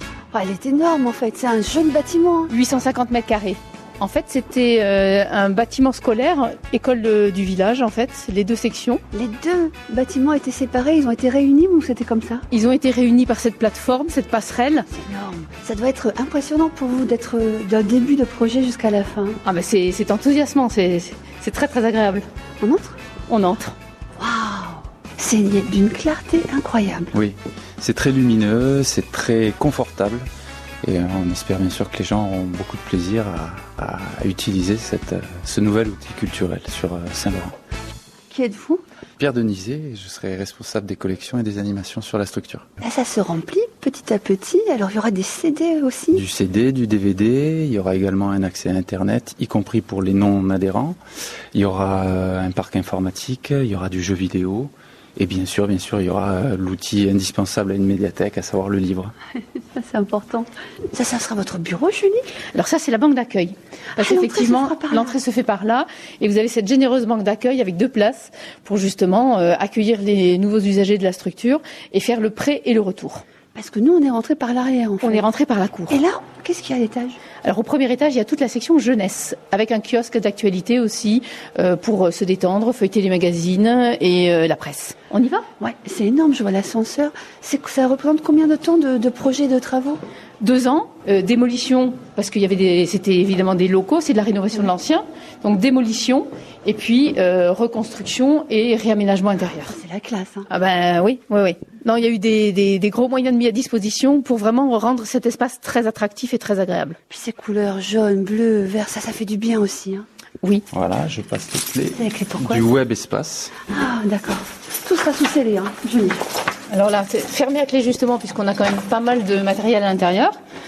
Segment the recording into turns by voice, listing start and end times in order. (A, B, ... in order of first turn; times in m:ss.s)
0:00.3-0:02.5 A
0:02.5-0:09.0 B
0:09.1-0:12.4 A
0:12.5-0:14.9 B
0:14.9-0:19.4 A
0:19.4-0:22.2 B
0:22.6-0:23.0 A
0:23.3-0:23.7 B
0:24.2-0:27.1 A
0:27.1-0:30.3 C
0:30.8-0:37.5 C
0:38.3-0:38.8 A
0:39.2-0:42.6 C
0:42.8-0:46.2 A
0:46.1-0:51.0 C
0:51.5-0:59.1 C
0:59.6-1:02.2 A
1:02.5-1:13.2 B
1:04.0-1:05.2 A
1:13.5-1:15.2 A
1:15.0-1:16.0 B
1:15.9-1:17.2 A
1:17.4-1:25.4 B
1:25.6-1:30.0 A
1:30.4-1:39.8 B
1:39.7-1:40.5 A
1:40.5-1:47.0 B
1:47.1-1:50.1 A
1:50.7-1:53.6 C
1:51.9-1:52.7 A
1:53.7-1:56.2 A
1:56.7-2:00.3 B